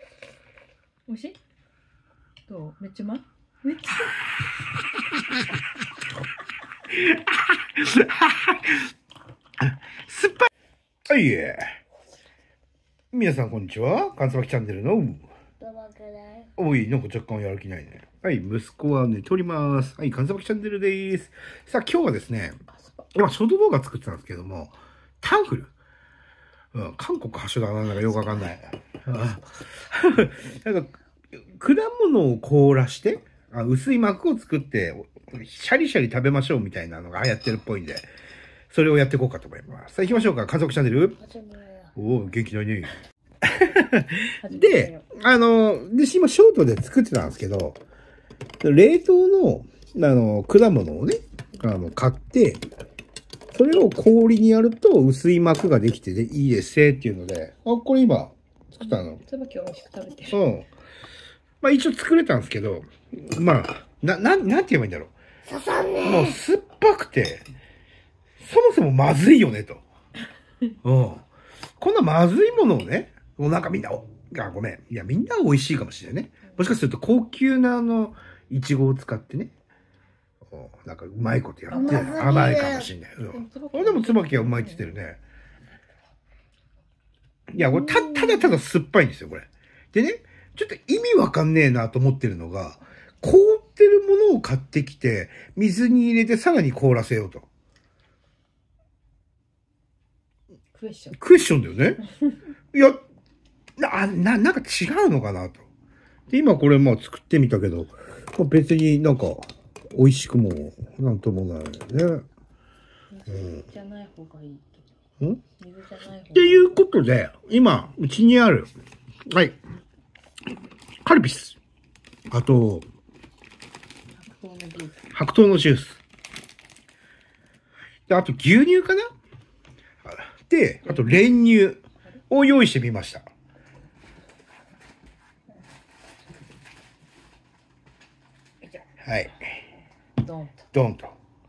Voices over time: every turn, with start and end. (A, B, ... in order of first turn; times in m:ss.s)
0:01.1-0:01.4 A
0:02.5-0:04.2 A
0:06.9-0:08.8 B
0:09.6-0:10.5 B
0:11.1-0:11.7 B
0:13.1-0:15.2 B
0:15.6-0:16.5 C
0:16.6-0:22.6 B
0:22.7-0:23.1 A
0:23.1-0:25.7 B
0:26.7-0:30.9 B
0:31.5-0:38.1 B
0:38.7-0:41.2 B
0:41.2-0:41.9 C
0:42.0-0:42.9 B
0:43.4-0:47.8 B
0:44.2-0:45.0 A
0:48.6-0:52.6 B
0:53.5-0:59.2 B
0:58.8-1:00.4 A
1:00.3-1:00.7 B
1:01.6-1:05.1 B
1:05.4-1:06.4 C
1:06.0-1:07.4 B
1:08.4-1:09.8 B
1:10.8-1:11.2 B
1:11.8-1:19.5 B
1:16.4-1:16.7 A
1:20.5-1:25.2 B
1:21.7-1:22.3 A
1:21.7-1:22.9 C
1:23.3-1:24.9 A
1:27.5-1:37.4 B
1:27.6-1:28.5 C
1:40.7-1:41.2 A
1:41.2-1:42.0 B
1:42.7-1:43.0 B
1:43.8-1:45.6 B
1:46.3-1:52.2 B
1:53.1-1:54.9 A
1:53.3-1:53.6 B
1:55.6-1:56.7 A
1:56.3-1:58.7 B
1:59.3-1:59.6 B
2:01.0-2:01.6 B
2:02.3-2:02.8 B
2:04.2-2:05.0 A
2:05.1-2:06.0 B
2:08.1-2:09.1 B
2:10.0-2:13.2 B
2:10.8-2:11.3 A
2:19.0-2:19.3 B
2:20.2-2:20.7 A
2:20.7-2:21.1 B